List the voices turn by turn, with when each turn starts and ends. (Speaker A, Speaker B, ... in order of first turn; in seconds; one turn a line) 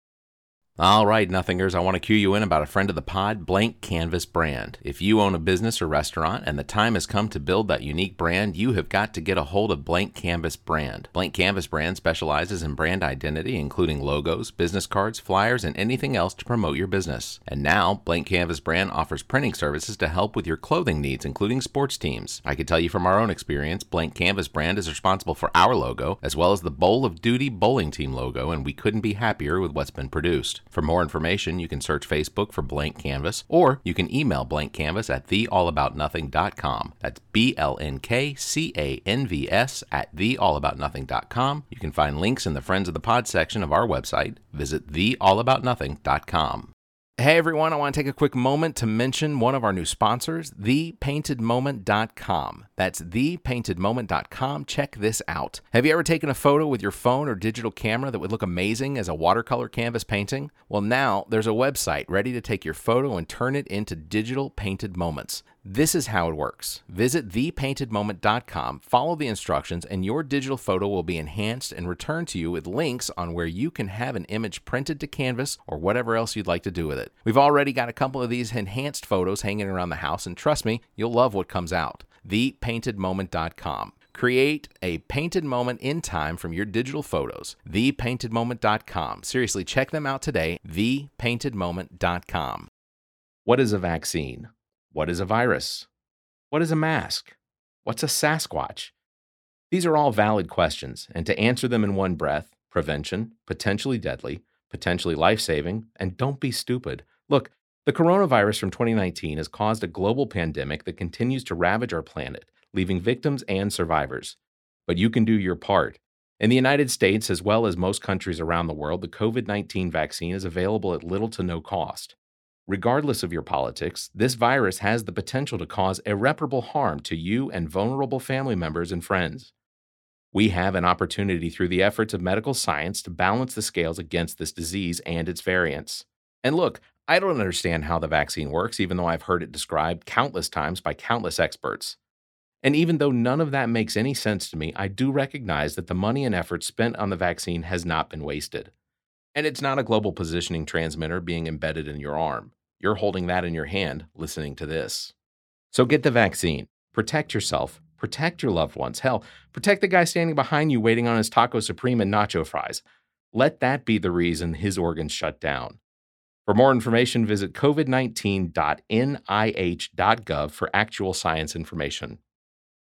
Speaker A: 0.8-92.7
Speaker A: 93.5-95.9
Speaker A: 96.5-97.3
Speaker A: 97.8-98.9
Speaker A: 99.7-122.2
Speaker A: 122.7-129.5
Speaker A: 130.3-142.0
Speaker A: 142.6-148.7
Speaker A: 149.3-155.1
Speaker A: 155.7-165.8
Speaker A: 166.5-172.2